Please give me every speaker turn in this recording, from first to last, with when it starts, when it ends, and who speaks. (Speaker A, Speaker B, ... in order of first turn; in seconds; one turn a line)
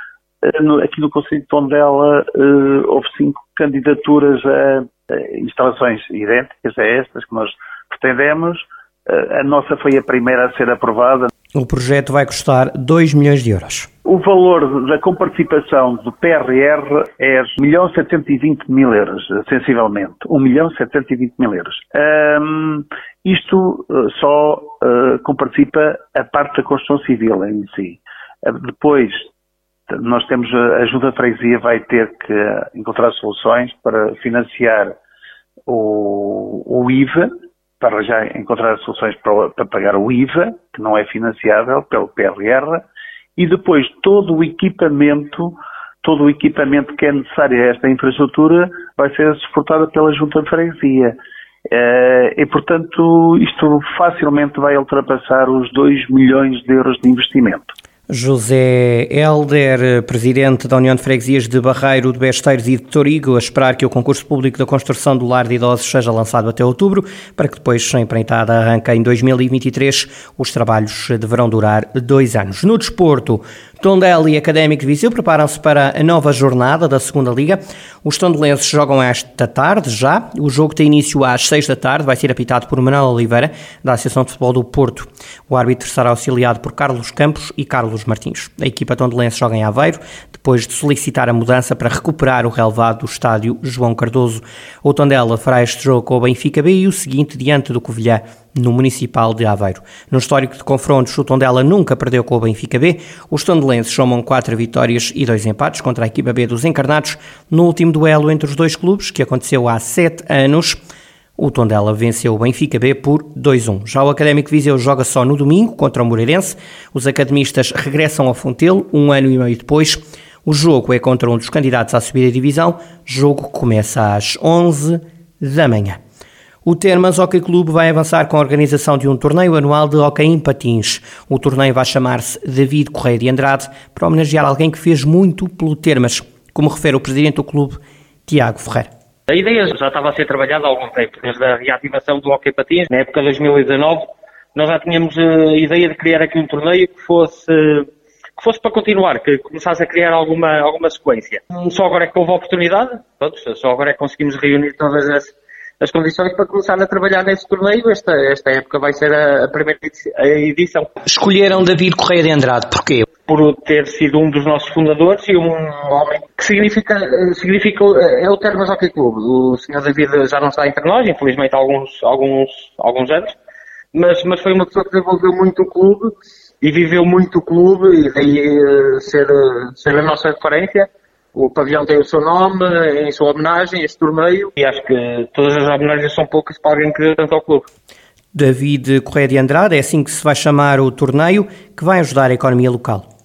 Speaker A: 0.4-11.3
Speaker B: 11.6-13.9
Speaker A: 14.0-29.3
Speaker A: 29.9-35.0
Speaker A: 35.7-37.3
Speaker A: 37.8-51.2
Speaker A: 51.7-57.7
Speaker B: 58.1-110.8
Speaker B: 111.4-126.0
Speaker B: 126.6-138.9
Speaker C: 139.3-160.9
Speaker B: 161.1-163.0
Speaker C: 163.3-173.3
Speaker C: 173.9-187.7
Speaker B: 188.3-193.1